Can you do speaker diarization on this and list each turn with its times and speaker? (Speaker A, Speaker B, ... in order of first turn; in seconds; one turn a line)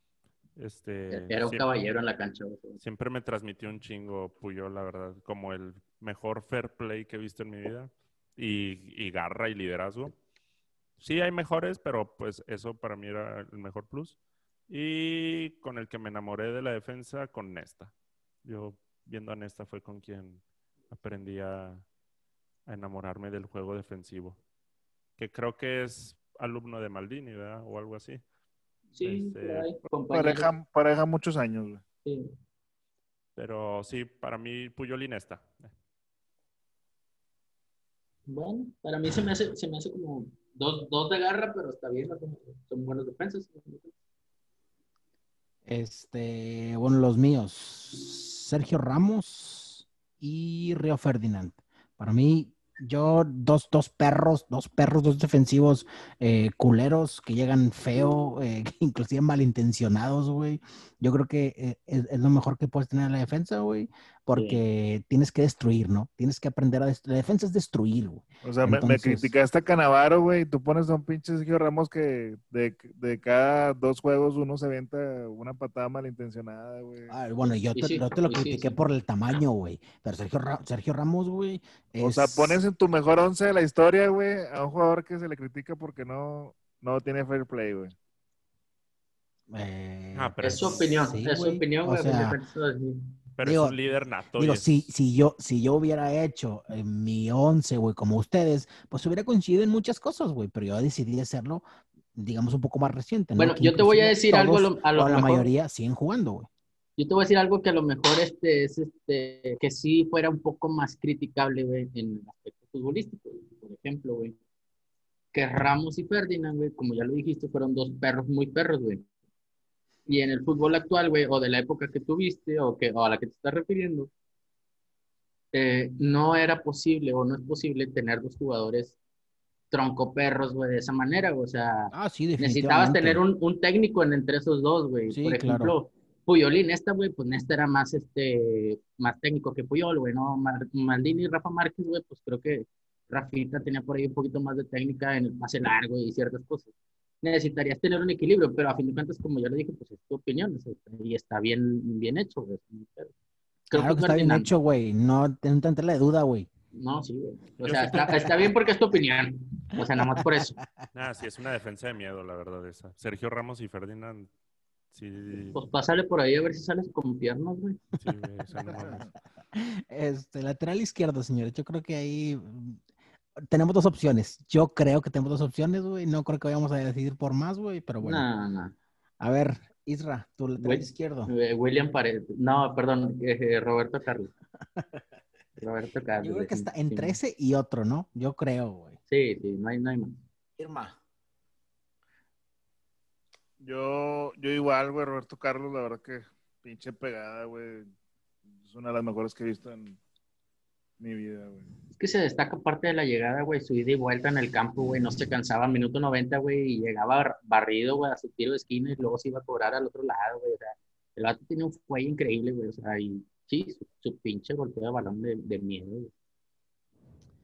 Speaker A: 0.6-1.6
Speaker B: 1.1-2.8
Speaker A: 2.8-10.1
Speaker A: 11.0-14.2
Speaker A: 14.7-17.9
Speaker A: 18.4-21.9
Speaker A: 22.7-24.4
Speaker A: 25.2-28.2
Speaker A: 28.9-29.7
Speaker B: 28.9-30.5
Speaker C: 30.1-31.8
Speaker B: 32.0-32.3
Speaker A: 33.4-35.7
Speaker B: 38.3-43.9
Speaker D: 45.7-69.3
Speaker B: 64.3-64.6
Speaker C: 68.4-77.1
Speaker D: 77.1-82.6
Speaker B: 77.7-78.8
Speaker C: 82.0-87.9
Speaker D: 89.5-92.4
Speaker A: 90.1-90.9
Speaker B: 90.4-93.1
Speaker A: 93.4-94.9
Speaker D: 93.4-93.7
Speaker D: 94.4-101.6
Speaker D: 102.1-106.5
Speaker B: 103.4-105.5
Speaker B: 107.0-114.3
Speaker B: 115.3-119.0
Speaker B: 120.1-124.1
Speaker B: 125.5-129.0
Speaker B: 129.7-146.7
Speaker D: 131.9-133.2
Speaker D: 135.1-135.7
Speaker B: 147.2-153.1
Speaker B: 153.7-154.5
Speaker D: 153.7-156.5
Speaker B: 156.7-160.6
Speaker A: 157.6-158.3
Speaker D: 160.1-160.9
Speaker A: 160.9-164.3
Speaker A: 164.9-165.6
Speaker B: 165.5-167.8
Speaker A: 168.0-169.1
Speaker D: 168.5-172.8
Speaker D: 173.4-178.3
Speaker B: 178.0-178.7
Speaker D: 179.2-181.3
Speaker B: 180.6-184.3
Speaker B: 185.6-187.2
Speaker D: 186.2-189.0
Speaker B: 189.1-190.2
Speaker D: 190.6-191.0
Speaker C: 193.6-197.9
Speaker C: 198.6-200.0
Speaker C: 201.0-201.7
Speaker B: 201.9-216.1